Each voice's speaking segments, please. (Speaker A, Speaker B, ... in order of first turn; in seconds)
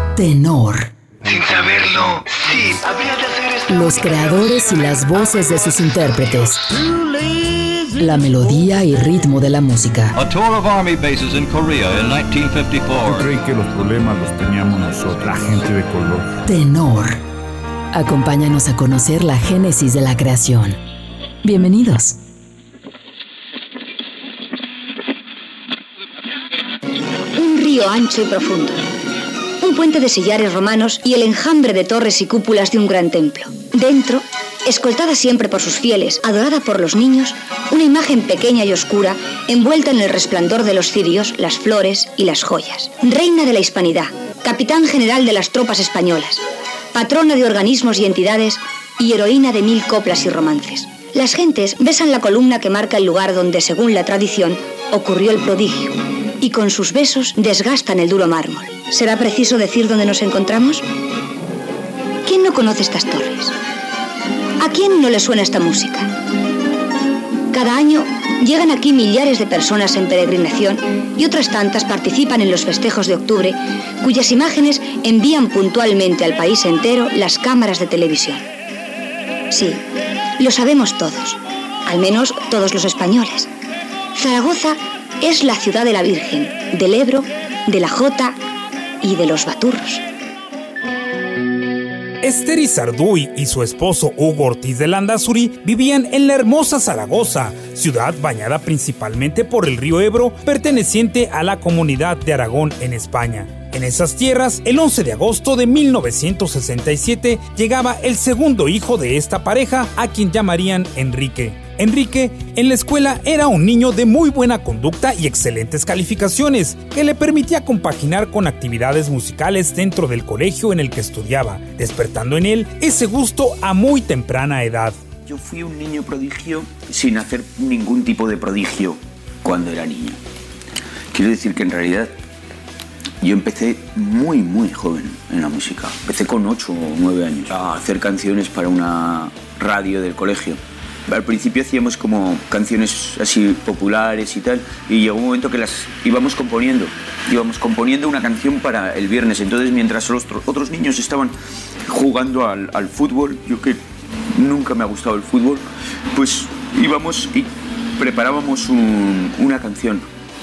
Speaker A: 0.1-0.9, 3.7-6.7, 8.0-10.1, 16.4-17.2, 17.9-20.8, 21.4-22.2
Speaker B: 1.2-4.7
Speaker C: 10.1-13.3
Speaker D: 13.0-16.3
Speaker E: 27.4-28.8, 29.6-46.4, 46.9-60.8, 62.2-63.5, 64.6-66.1, 67.5-78.4, 79.5-79.8, 80.4-83.5, 84.1-88.4, 89.0-90.0
Speaker F: 92.2-125.0
Speaker G: 125.2-130.2, 131.1-132.1, 133.2-151.3, 151.9-153.8, 154.3-160.0